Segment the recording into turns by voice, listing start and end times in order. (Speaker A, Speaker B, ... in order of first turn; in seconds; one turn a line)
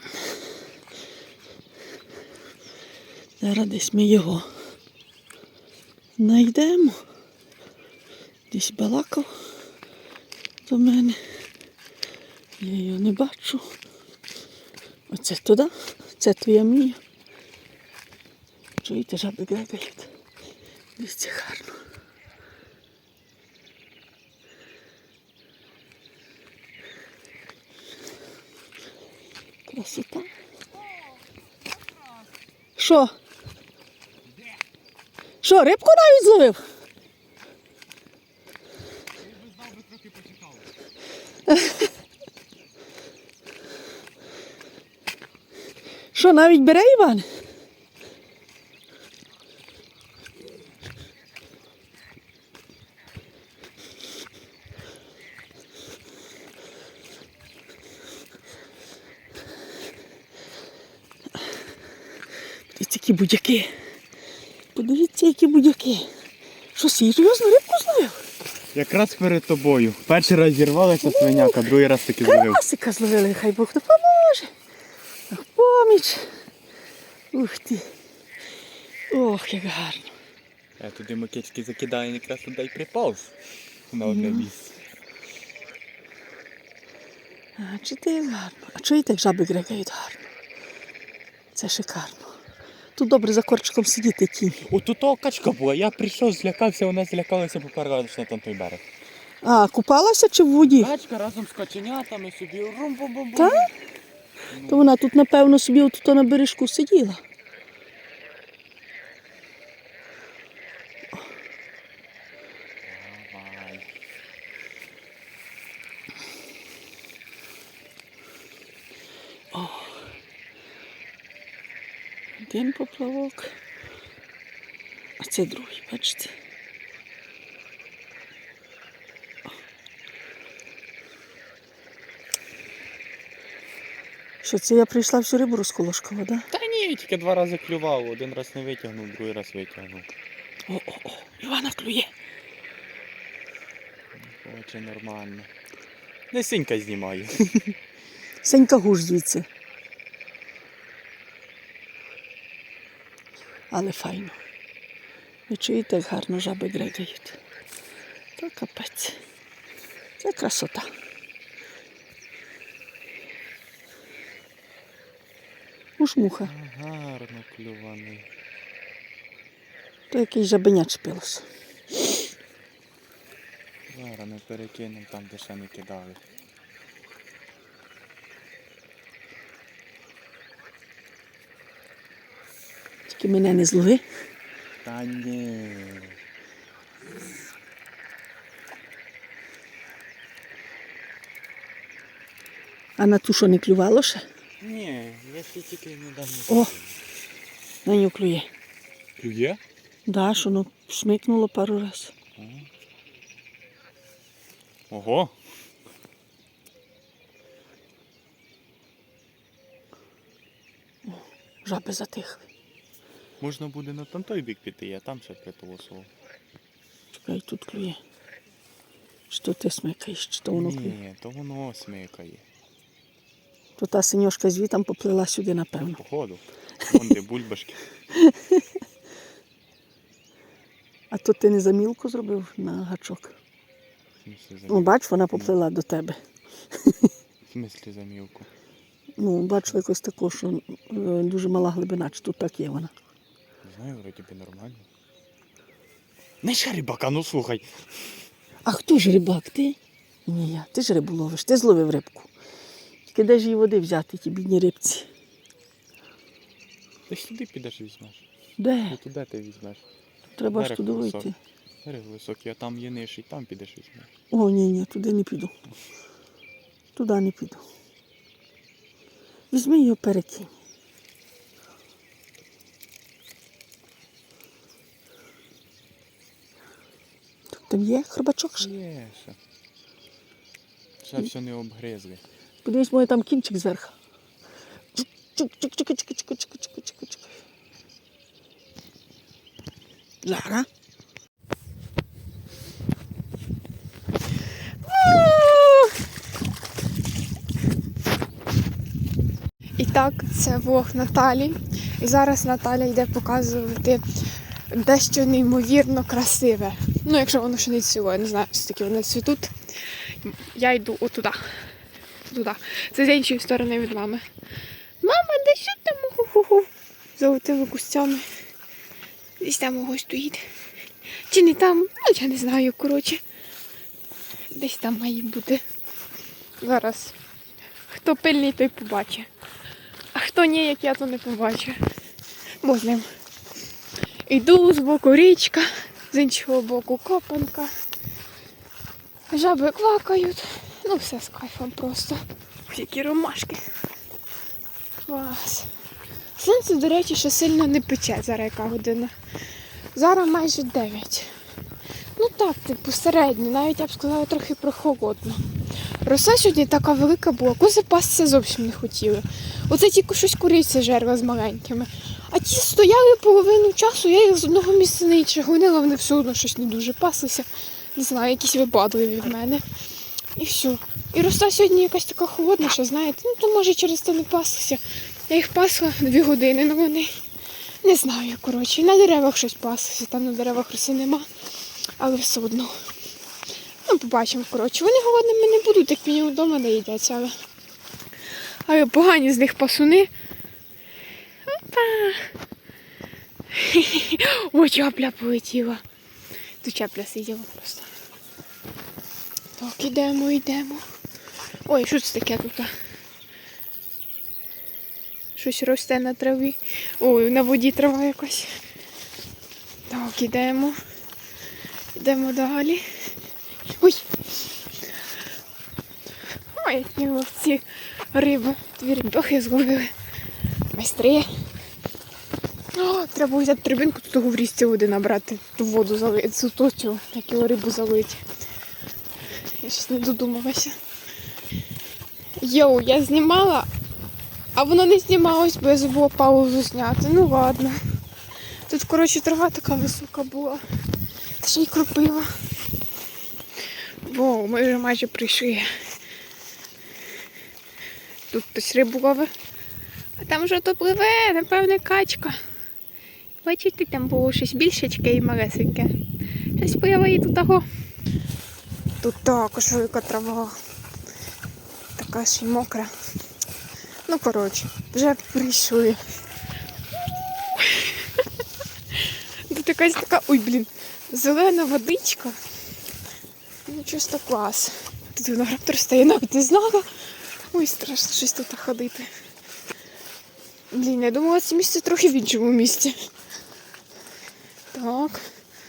Speaker A: 3.4-4.5
Speaker A: 6.2-7.0
Speaker A: 8.5-9.3
Speaker A: 10.7-11.2
Speaker A: 12.6-13.7
Speaker A: 15.1-17.0
Speaker A: 18.8-20.1
Speaker A: 21.0-21.8
Speaker A: 29.6-30.3
Speaker A: 32.8-33.1
Speaker A: 35.4-36.6
Speaker B: 39.4-40.5
Speaker A: 46.1-47.2
Speaker A: 62.7-63.7
Speaker A: 64.7-66.1
Speaker A: 66.7-68.2
Speaker B: 68.7-72.6
Speaker A: 71.0-71.7
Speaker A: 72.2-74.5
Speaker A: 75.3-76.3
Speaker A: 77.3-77.8
Speaker A: 79.1-80.1
Speaker B: 80.8-83.3
Speaker B: 83.9-84.8
Speaker A: 84.0-84.5
Speaker A: 87.6-90.3
Speaker A: 91.5-92.3
Speaker A: 93.0-94.6
Speaker B: 94.7-98.8
Speaker A: 99.4-100.9
Speaker B: 100.6-103.7
Speaker A: 103.3-103.7
Speaker B: 104.5-104.9
Speaker A: 104.7-107.2
Speaker B: 112.8-113.9
Speaker A: 119.5-120.1
Speaker A: 122.4-123.5
Speaker A: 125.2-126.3
Speaker A: 134.4-136.4
Speaker B: 136.5-140.1
Speaker A: 140.7-142.1
Speaker B: 144.1-145.5
Speaker B: 146.3-147.7
Speaker A: 148.4-149.4
Speaker A: 153.7-154.3
Speaker A: 155.5-157.4
Speaker A: 158.4-159.2
Speaker A: 160.2-160.9
Speaker A: 166.0-166.5
Speaker B: 166.4-168.3
Speaker A: 170.1-171.4
Speaker B: 173.9-176.2
Speaker A: 183.1-184.0
Speaker B: 184.8-186.2
Speaker A: 193.0-194.2
Speaker B: 194.6-196.9
Speaker A: 197.8-198.5
Speaker B: 199.2-199.6
Speaker A: 200.1-202.1
Speaker B: 202.4-202.7
Speaker B: 204.9-205.3
Speaker A: 211.1-212.4
Speaker B: 213.4-216.1
Speaker A: 217.1-218.0
Speaker A: 219.3-220.9
Speaker B: 220.5-222.4
Speaker A: 223.8-226.0
Speaker B: 225.8-227.8
Speaker A: 228.1-228.6
Speaker A: 231.1-233.3
Speaker B: 234.2-235.5
Speaker A: 234.7-236.2
Speaker B: 237.5-238.5
Speaker A: 239.2-242.9
Speaker B: 243.6-244.8
Speaker B: 246.4-247.7
Speaker A: 248.7-252.3
Speaker A: 253.0-255.1
Speaker B: 257.1-258.2
Speaker A: 258.6-259.0
Speaker B: 258.9-259.8
Speaker A: 260.4-261.4
Speaker B: 260.5-261.3
Speaker B: 261.8-264.1
Speaker A: 264.3-265.5
Speaker A: 266.9-267.6
Speaker A: 269.5-270.5
Speaker A: 277.5-278.7
Speaker B: 278.6-279.4
Speaker B: 281.0-282.2
Speaker A: 282.6-283.9
Speaker A: 284.9-287.3
Speaker A: 290.2-290.7
Speaker C: 294.9-295.9
Speaker C: 299.8-304.0
Speaker C: 304.7-311.6
Speaker C: 312.3-314.2
Speaker C: 315.0-318.2
Speaker C: 319.4-320.4
Speaker C: 321.3-323.2
Speaker C: 324.5-325.6
Speaker C: 326.6-327.1
Speaker C: 327.9-329.3
Speaker C: 330.1-331.8
Speaker C: 332.6-333.1
Speaker C: 334.3-337.7
Speaker C: 339.3-343.6
Speaker C: 345.0-345.7
Speaker C: 346.4-349.1
Speaker C: 349.9-351.3
Speaker C: 352.2-369.6
Speaker C: 370.4-377.1
Speaker C: 377.8-381.3
Speaker C: 382.0-382.8
Speaker C: 383.9-387.3
Speaker C: 388.6-390.1
Speaker C: 391.5-392.3
Speaker C: 393.5-395.8
Speaker C: 396.6-397.9
Speaker C: 399.6-400.8
Speaker C: 401.6-402.7
Speaker C: 405.3-408.6
Speaker C: 409.9-410.8
Speaker C: 411.9-412.8
Speaker C: 413.8-414.1
Speaker C: 416.5-419.9
Speaker C: 420.7-421.3
Speaker C: 422.7-428.2
Speaker C: 429.6-430.8
Speaker C: 432.4-433.7
Speaker C: 434.5-437.8
Speaker C: 438.7-440.6
Speaker C: 441.4-442.3
Speaker C: 444.0-445.7
Speaker C: 448.3-449.3
Speaker C: 450.2-452.4
Speaker C: 453.4-455.9
Speaker C: 456.6-457.6
Speaker C: 459.0-460.5
Speaker C: 461.9-462.9
Speaker C: 464.1-466.0
Speaker C: 467.1-468.3
Speaker C: 468.9-472.4
Speaker C: 473.6-476.9
Speaker C: 477.5-479.1
Speaker C: 480.7-482.9
Speaker C: 484.7-485.3